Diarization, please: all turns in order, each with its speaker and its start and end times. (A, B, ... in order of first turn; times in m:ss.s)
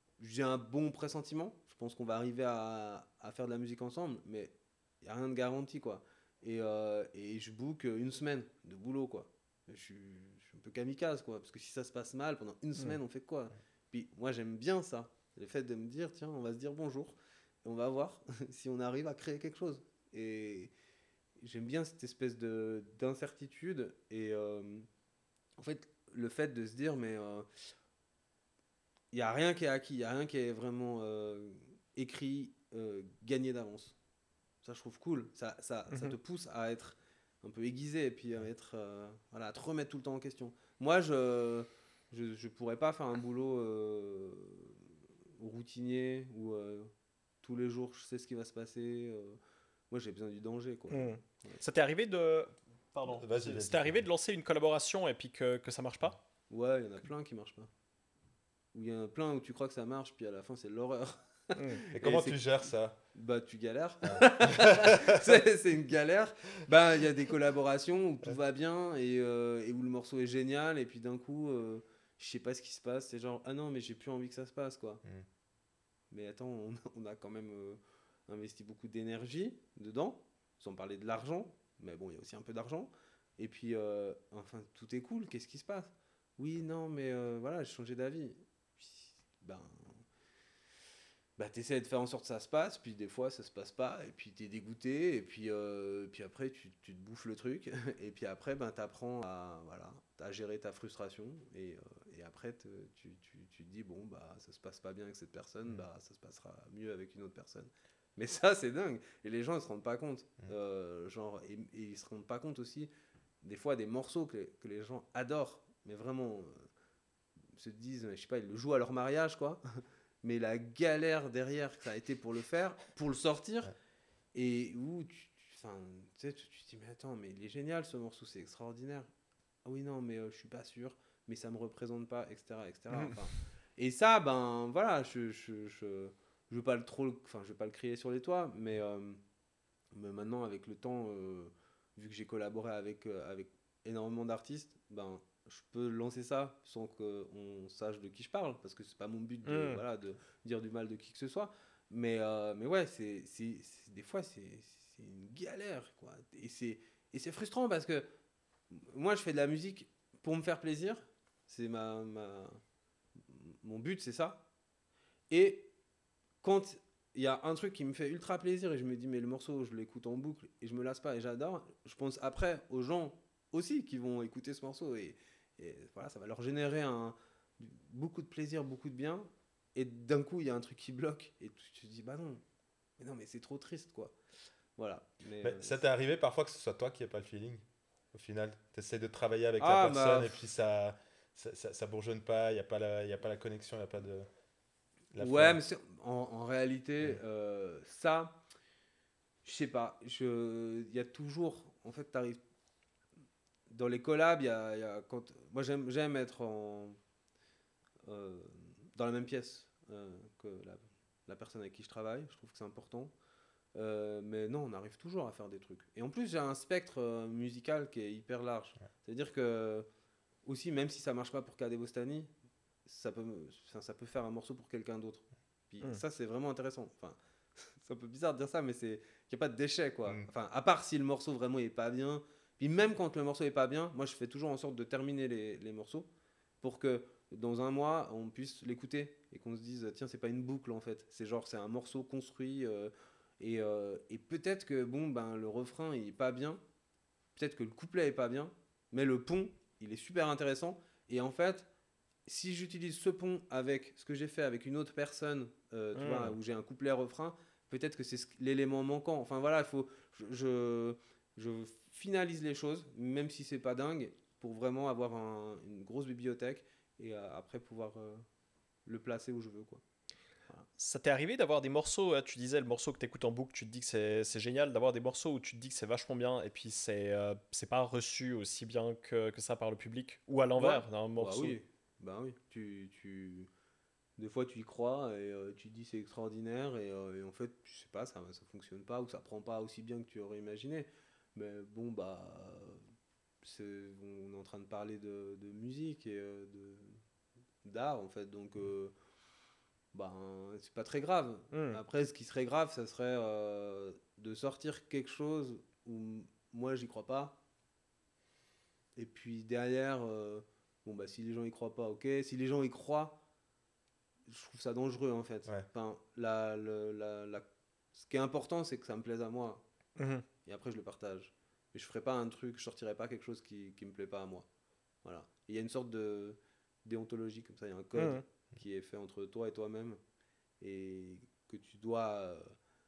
0:00.2-0:20.7 A
0:21.4-0:24.9 A
0:25.6-0:27.5 A
0:29.1-0:34.0 A
0:34.6-0:44.8 A
0:35.9-0:36.2 B
0:45.4-0:46.9 A
0:47.4-0:49.4 A
0:49.9-0:51.6 A
0:50.9-0:56.2 B
0:53.1-0:54.0 C
0:56.5-0:57.7 A
0:58.7-1:02.4 A
1:01.9-1:03.0 C
1:03.1-1:15.0 A
1:04.0-1:05.4 C
1:16.1-1:30.0 A
1:31.4-1:52.9 A
1:53.4-1:56.7 A
1:57.5-2:03.7 A
2:04.3-2:09.1 A
2:09.6-2:19.2 A
2:19.9-2:38.0 A
2:29.4-2:29.8 B
2:38.7-2:42.6 A
2:43.3-2:44.4 A
2:45.3-2:45.7 A
2:46.4-3:02.4 A
3:03.0-3:04.1 A
3:04.8-3:05.8 A
3:05.4-3:14.3 C
3:09.6-3:10.4 A
3:15.1-3:15.6 C
3:15.2-3:18.4 A
3:19.4-3:22.4 A
3:23.7-3:27.0 A
3:28.0-3:33.1 A
3:33.7-3:39.8 A
3:40.4-3:42.3 A
3:42.8-3:56.1 A
3:56.6-4:06.6 A
4:07.4-4:11.7 A
4:12.2-4:28.2 A
4:15.9-4:16.3 B
4:28.8-4:29.8 A
4:30.8-4:41.6 B
4:40.6-4:43.5 A
4:44.2-4:52.8 A
4:53.4-4:57.0 A
4:57.6-4:58.9 A
4:59.9-5:07.4 A
5:01.5-5:01.8 B
5:09.0-5:13.2 A
5:14.3-5:17.4 A
5:18.0-5:19.6 A
5:20.0-5:20.2 B
5:20.4-5:24.5 A
5:25.0-5:30.0 A
5:28.0-5:28.2 B
5:30.6-5:32.5 A